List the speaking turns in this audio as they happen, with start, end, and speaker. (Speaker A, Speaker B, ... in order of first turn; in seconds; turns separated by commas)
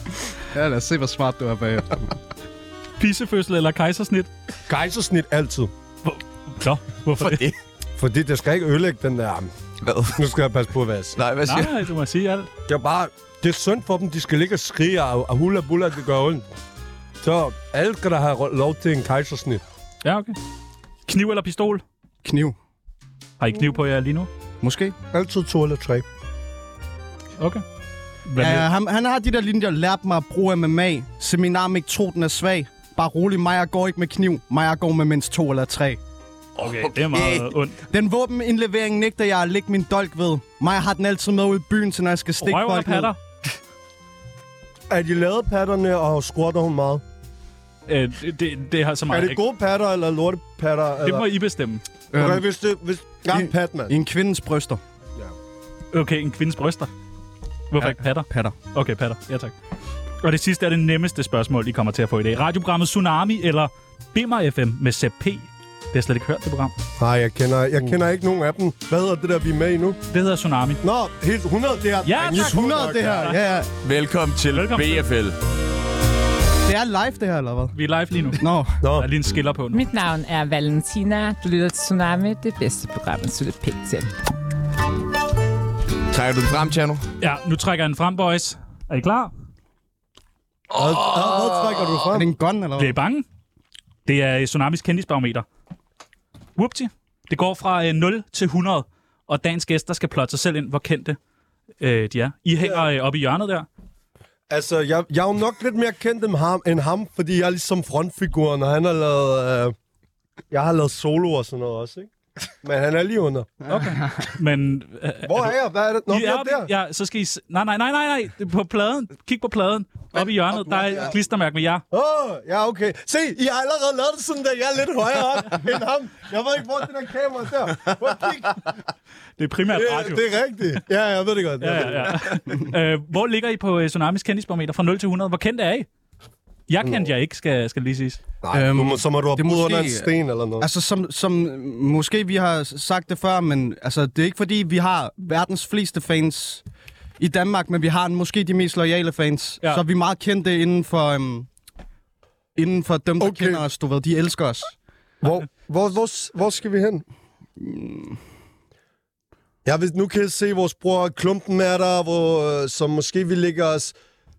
Speaker A: 0.5-2.2, Speaker B: 3.0-4.3, Speaker C: 4.7-5.7, Speaker B: 6.0-7.5, Speaker D: 7.2-7.5, Speaker C: 8.0-9.5, Speaker D: 9.8-10.2, Speaker C: 10.1-11.2, Speaker D: 11.2-11.8, Speaker B: 11.4-12.5, Speaker C: 12.7-16.4, Speaker C: 17.2-19.6, Speaker B: 20.0-20.4, Speaker B: 21.1-21.8, Speaker A: 22.2-22.6, Speaker B: 23.4-24.3, Speaker A: 24.6-24.9, Speaker C: 25.1-26.0, Speaker B: 28.3-28.7, Speaker A: 28.4-36.0, Speaker D: 36.6-37.5, Speaker B: 36.6-37.8, Speaker A: 37.9-43.1, Speaker B: 42.4-43.2, Speaker C: 44.9-47.0, Speaker B: 47.9-49.4, Speaker C: 49.1-51.3, Speaker B: 51.0-51.8, Speaker A: 52.1-52.4, Speaker C: 52.1-53.9, Speaker A: 53.3-54.8, Speaker B: 55.9-56.9, Speaker B: 57.7-59.5, Speaker A: 57.8-58.5, Speaker B: 60.2-66.7, Speaker C: 67.0-70.0, Speaker B: 70.1-70.8, Speaker C: 70.8-73.3, Speaker B: 72.0-73.4, Speaker A: 72.3-73.7, Speaker D: 73.8-75.4, Speaker B: 74.5-75.0, Speaker A: 76.6-77.7, Speaker B: 77.7-78.4, Speaker A: 78.4-78.7, Speaker C: 78.8-79.1, Speaker B: 79.0-79.8, Speaker E: 79.7-84.1, Speaker D: 86.1-87.0, Speaker B: 87.2-89.3, Speaker C: 90.7-92.3, Speaker D: 90.7-92.0, Speaker A: 92.1-92.9, Speaker B: 92.8-93.2, Speaker B: 94.0-95.4, Speaker B: 96.6-101.2, Speaker B: 101.8-103.7, Speaker C: 104.5-109.7, Speaker C: 110.5-112.1, Speaker C: 112.6-113.5, Speaker B: 113.7-115.5, Speaker C: 115.2-116.7, Speaker B: 116.1-121.8, Speaker C: 120.2-121.1, Speaker C: 121.9-128.7, Speaker B: 129.4-130.2, Speaker C: 129.7-132.4, Speaker B: 131.6-135.9, Speaker B: 136.7-138.2, Speaker C: 136.8-137.1, Speaker C: 138.4-140.7, Speaker A: 138.5-146.6, Speaker A: 147.2-151.5, Speaker A: 152.6-154.7, Speaker C: 153.2-153.6, Speaker C: 155.2-157.0, Speaker A: 157.6-158.2, Speaker C: 159.6-163.9